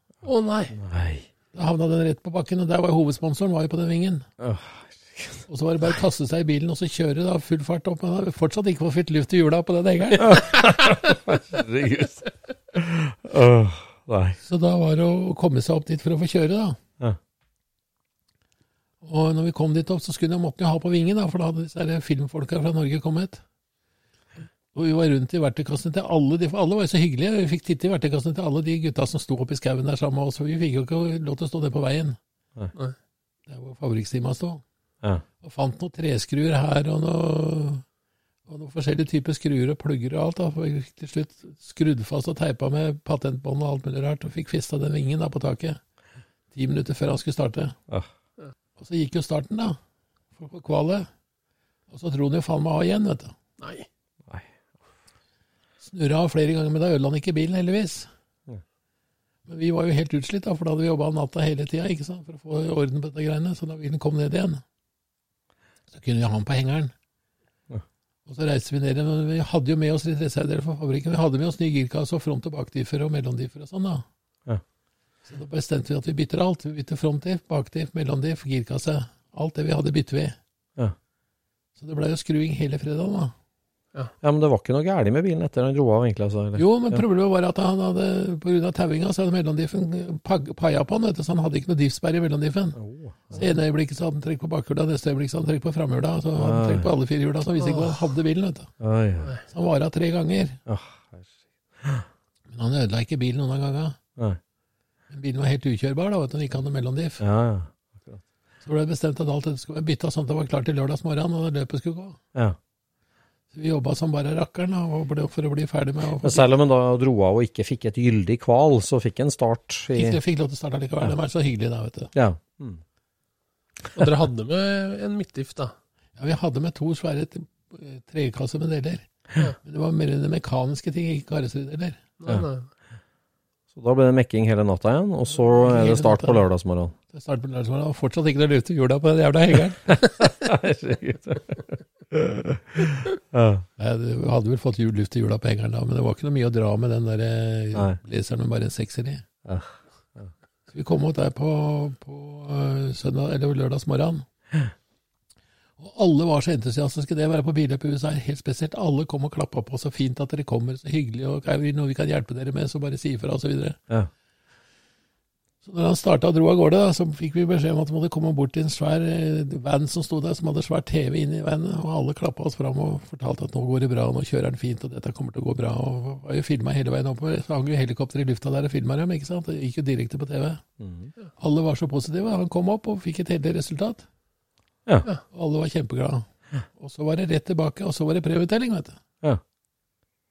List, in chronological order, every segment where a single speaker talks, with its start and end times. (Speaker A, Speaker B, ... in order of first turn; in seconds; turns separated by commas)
Speaker A: 0.2-0.8, Speaker B: 0.7-1.3, Speaker C: 1.5-4.3, Speaker B: 4.4-5.4, Speaker C: 5.5-10.4, Speaker B: 10.2-14.4, Speaker C: 14.4-16.8, Speaker C: 19.0-23.4, Speaker C: 24.7-32.2, Speaker C: 33.5-34.6, Speaker C: 35.4-37.8, Speaker C: 38.5-45.8, Speaker C: 46.5-47.8, Speaker C: 48.8-49.8, Speaker C: 50.4-51.1, Speaker C: 51.9-53.4, Speaker A: 53.6-53.9, Speaker C: 55.8-58.1, Speaker C: 59.5-64.6, Speaker C: 65.9-66.9, Speaker C: 68.3-74.0, Speaker C: 75.3-80.4, Speaker C: 81.8-83.3, Speaker B: 84.2-87.0, Speaker C: 86.5-92.8, Speaker B: 92.8-93.4, Speaker C: 93.3-98.7, Speaker B: 96.4-96.9, Speaker A: 97.6-98.0, Speaker B: 98.8-99.3, Speaker C: 99.5-100.6, Speaker B: 100.7-102.1, Speaker C: 102.5-104.0, Speaker C: 105.1-107.2, Speaker B: 107.2-108.2, Speaker C: 108.6-112.2, Speaker C: 113.5-116.5, Speaker B: 116.2-120.2, Speaker C: 119.9-122.1, Speaker B: 122.1-122.8, Speaker A: 124.0-125.7, Speaker C: 126.2-129.1, Speaker C: 129.6-132.0, Speaker A: 132.2-132.7, Speaker B: 133.7-136.9, Speaker C: 135.4-136.4, Speaker C: 137.1-139.9, Speaker B: 139.9-143.7, Speaker C: 143.8-149.2, Speaker B: 149.5-150.3, Speaker C: 150.7-154.2, Speaker C: 155.8-163.8, Speaker C: 165.6-180.6, Speaker B: 180.8-181.1, Speaker C: 181.4-184.1, Speaker C: 185.3-189.0